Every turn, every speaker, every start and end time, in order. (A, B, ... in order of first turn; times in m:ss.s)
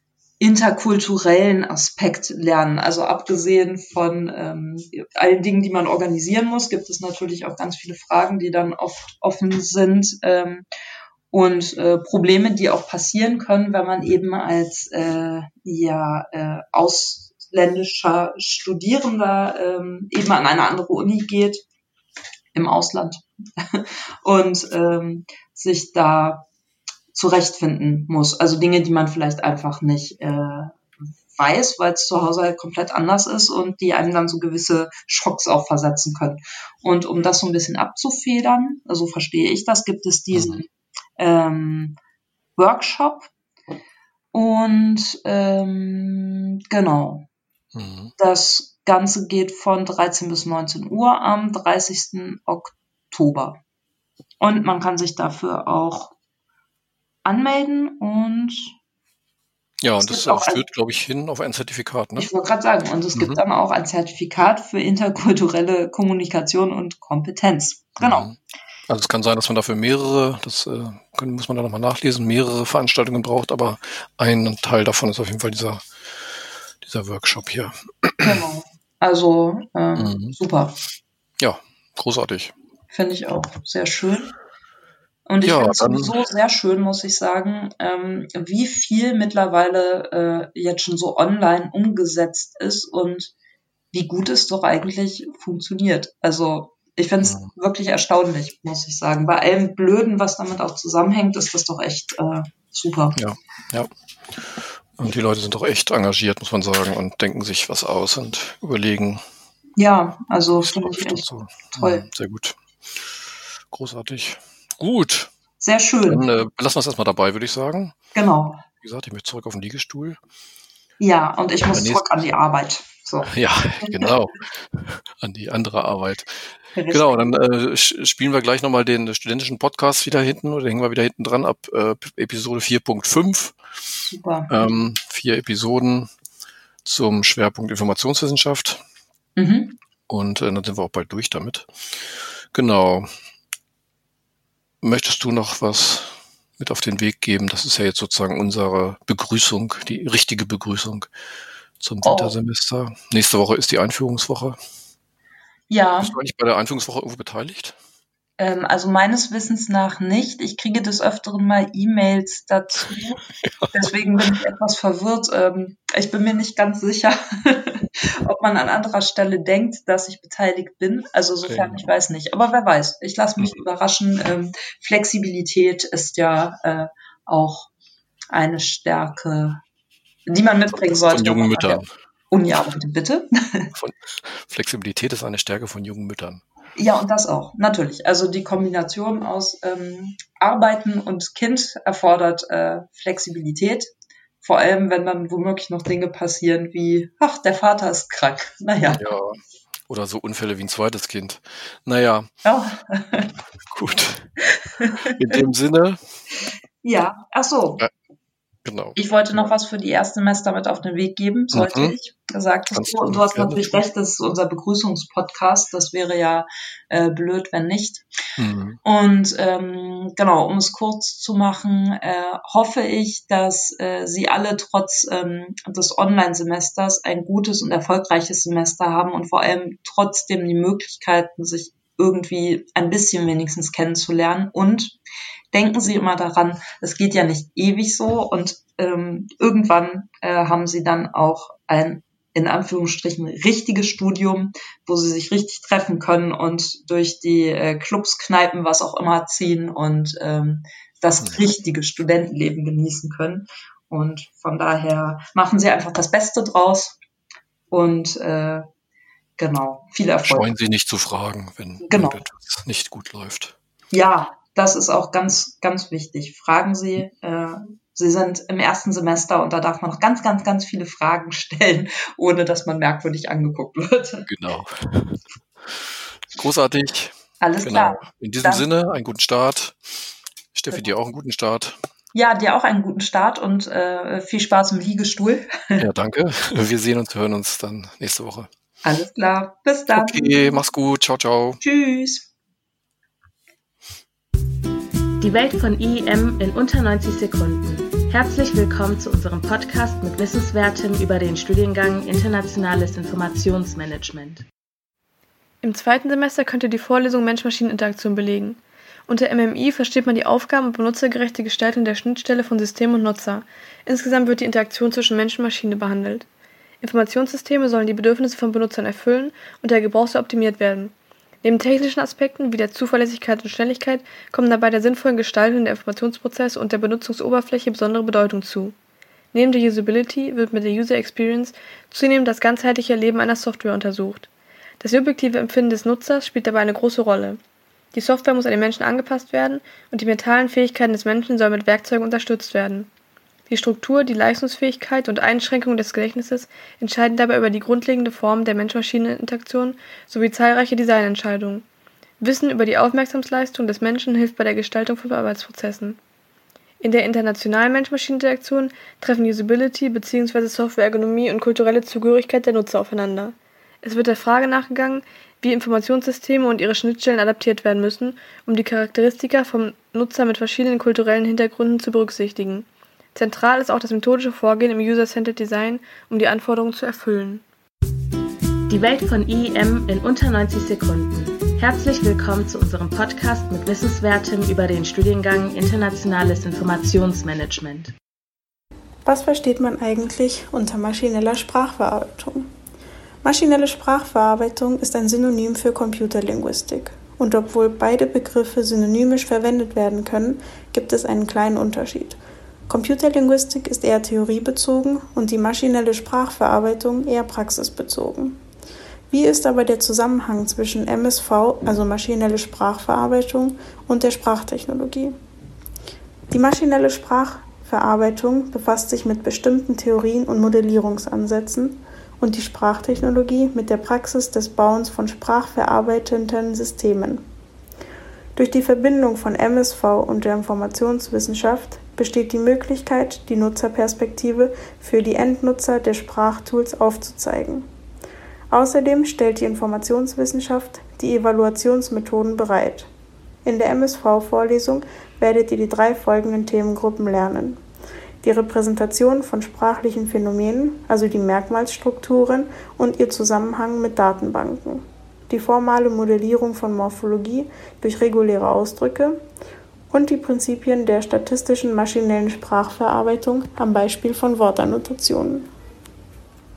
0:00.4-0:10.7 A
0:11.3-0:21.6 A
0:22.5-0:26.5 A
0:27.1-0:30.8 A
0:31.3-0:42.0 A
0:40.3-0:40.6 B
0:42.6-0:43.3 A
0:44.3-0:47.3 A
0:47.8-0:48.1 B
0:48.2-0:53.6 A
0:54.4-0:56.1 A
0:57.2-0:58.7 A
0:59.8-1:02.3 B
1:00.0-1:00.6 A
1:02.2-1:08.3 A
1:03.2-1:03.4 B
1:08.0-1:08.4 B
1:08.9-1:15.8 B
1:16.8-1:18.4 B
1:18.2-1:20.8 A
1:20.0-1:20.4 B
1:21.4-1:22.5 B
1:22.9-1:24.3 A
1:25.3-1:33.3 A
1:25.4-1:26.1 B
1:33.9-1:43.2 A
1:37.2-1:37.5 B
1:43.2-1:43.9 B
1:45.0-1:49.2 B
1:49.8-1:52.1 A
1:50.6-1:52.6 B
1:53.7-1:55.3 B
1:55.6-1:56.3 A
1:56.1-1:58.0 B
1:58.2-1:58.6 A
1:58.8-2:00.2 B
2:01.0-2:04.1 A
2:01.7-2:02.1 B
2:03.3-2:13.6 B
2:06.8-2:07.3 A
2:14.1-2:14.7 A
2:14.5-2:16.1 B
2:16.8-2:18.8 B
2:19.4-2:19.8 A
2:20.1-2:21.7 B
2:22.5-2:23.1 B
2:24.8-2:31.1 B
2:31.8-2:34.6 B
2:32.0-2:32.4 A
2:35.7-2:36.2 A
2:36.0-2:37.8 B
2:38.4-2:43.2 A
2:43.4-2:43.7 B
2:43.7-2:57.7 A
2:51.5-2:51.9 B
2:58.3-2:59.6 A
3:00.3-3:03.7 A
3:00.7-3:01.9 B
3:03.7-3:06.4 B
3:06.8-3:13.9 A
3:14.4-3:19.0 A
3:18.8-3:22.3 B
3:22.4-3:23.3 A
3:23.7-3:24.3 B
3:24.8-3:25.4 A
3:25.0-3:26.0 B
3:26.8-3:27.8 A
3:28.6-3:29.0 B
3:29.0-3:38.0 A
3:31.5-3:32.0 B
3:32.7-3:33.8 B
3:38.4-3:38.8 B
3:38.8-3:55.0 A
3:55.5-4:17.0 A
4:11.2-4:11.5 B
4:17.7-4:18.6 A
4:19.4-4:20.5 A
4:20.3-4:23.6 B
4:21.8-4:22.2 A
4:23.9-4:34.3 A
4:34.3-4:35.8 B
4:36.3-4:39.9 B
4:37.4-4:38.7 A
4:40.5-4:41.8 B
4:42.1-4:45.8 A
4:45.8-4:48.5 B
4:48.8-4:50.6 A
4:49.9-4:51.6 B
4:51.6-4:52.3 A
4:55.2-5:04.4 C
5:05.6-5:16.3 D
5:16.8-5:28.8 D
5:29.3-5:34.3 D
5:34.8-5:37.4 D
5:37.9-5:42.9 D
5:43.5-5:51.6 D
5:52.2-5:56.0 D
5:56.8-6:17.4 D
6:18.7-6:27.9 C
6:29.1-6:32.5 E
6:33.2-6:42.2 E
6:42.7-6:48.4 E
6:49.1-6:55.2 E
6:56.3-7:07.2 E
7:08.4-7:17.7 E
7:18.5-7:22.9 E
7:23.4-7:27.6 E
7:28.2-7:39.2 E
7:39.9-7:45.5 E